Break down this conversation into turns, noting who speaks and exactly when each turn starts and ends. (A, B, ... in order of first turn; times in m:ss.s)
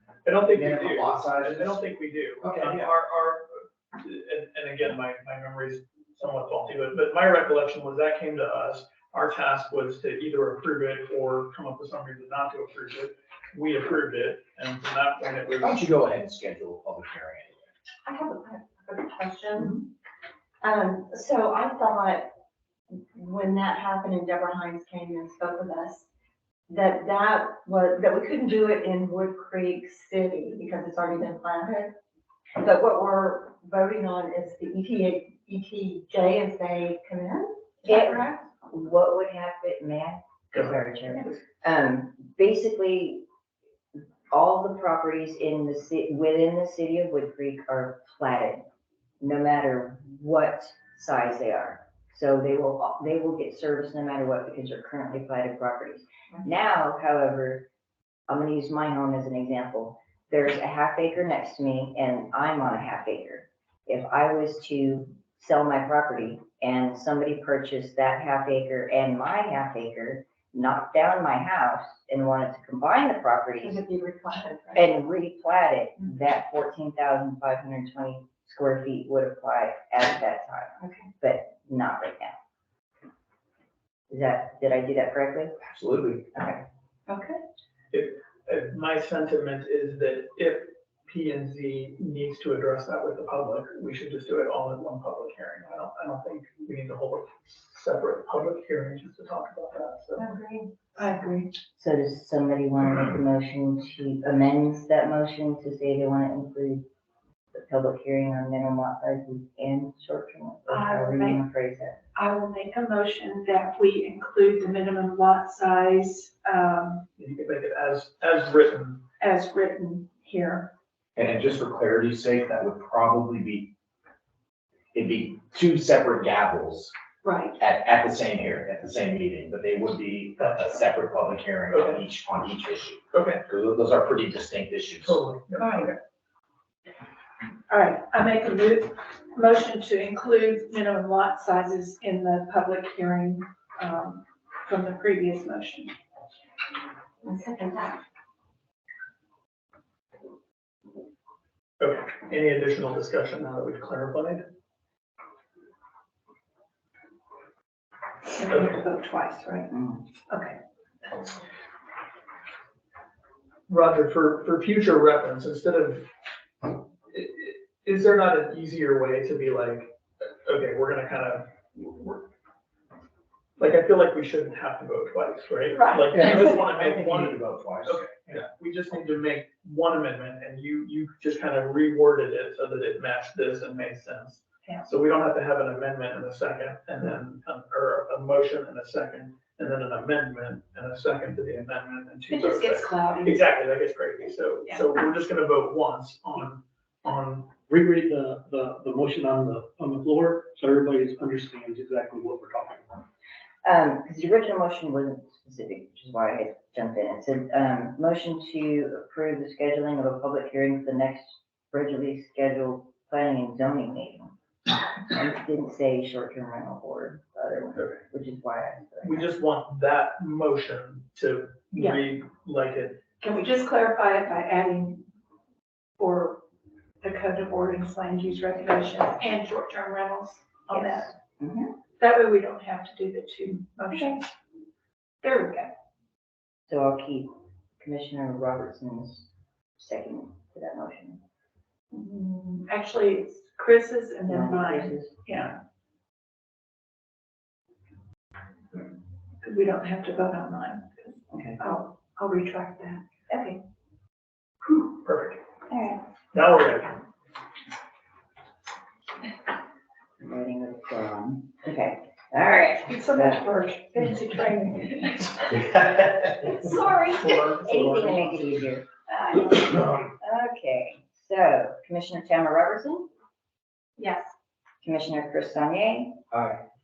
0:00.2-0:15.8 A
0:00.5-0:01.8 B
0:02.4-0:02.9 B
0:15.6-0:17.7 B
0:18.0-0:19.9 C
0:20.6-0:22.3 C
0:22.9-0:26.0 C
0:26.7-0:31.9 C
0:32.6-0:38.4 C
0:37.8-0:43.2 D
0:43.9-0:48.6 D
0:49.2-0:57.6 D
0:58.3-1:13.8 D
1:13.6-1:14.9 C
1:14.7-1:22.3 D
1:24.1-1:25.5 D
1:25.6-1:26.2 B
1:26.3-1:26.6 D
1:27.1-1:27.4 C
1:27.9-1:40.2 A
1:40.2-1:40.7 C
1:41.0-1:41.5 E
1:41.8-1:46.8 D
1:47.5-1:52.0 D
1:50.7-1:51.4 E
1:52.1-1:57.0 E
1:57.2-1:59.0 A
1:59.2-2:00.7 E
2:01.2-2:03.7 B
2:04.9-2:06.9 B
2:07.2-2:07.5 C
2:07.6-2:15.2 B
2:11.7-2:12.0 A
2:13.1-2:13.4 A
2:15.0-2:16.0 A
2:15.6-2:15.9 E
2:17.7-2:25.9 E
2:27.2-2:28.0 C
2:31.8-2:34.4 A
2:38.3-2:39.7 E
2:40.3-2:40.6 E
2:43.7-2:46.0 A
2:47.1-2:52.3 A
2:53.6-3:17.5 A
2:55.8-2:56.1 E
2:56.2-2:58.0 B
3:12.3-3:13.4 E
3:17.7-3:23.0 F
3:23.6-3:34.3 D
3:35.1-3:39.3 D
3:39.0-3:43.0 A
3:41.7-3:42.0 E
3:43.2-3:45.0 E
3:46.0-3:46.4 E
3:47.0-3:51.1 E
3:50.7-3:51.7 D
3:52.0-3:54.2 E
3:55.2-3:55.7 E
3:56.7-3:59.3 D
3:59.8-4:01.2 D
4:01.9-4:05.6 E
4:04.3-4:05.1 D
4:09.4-4:13.0 E
4:11.3-4:11.6 D
4:13.3-4:13.5 D
4:14.7-4:15.4 A
4:15.7-4:16.0 D
4:16.3-4:16.9 A
4:20.2-4:23.4 D
4:22.8-4:25.9 E
4:26.5-4:26.8 E
4:26.6-4:28.8 D
4:27.1-4:28.4 A
4:29.1-4:29.8 E
4:30.2-4:33.1 D
4:34.0-4:34.3 E
4:34.8-4:36.2 D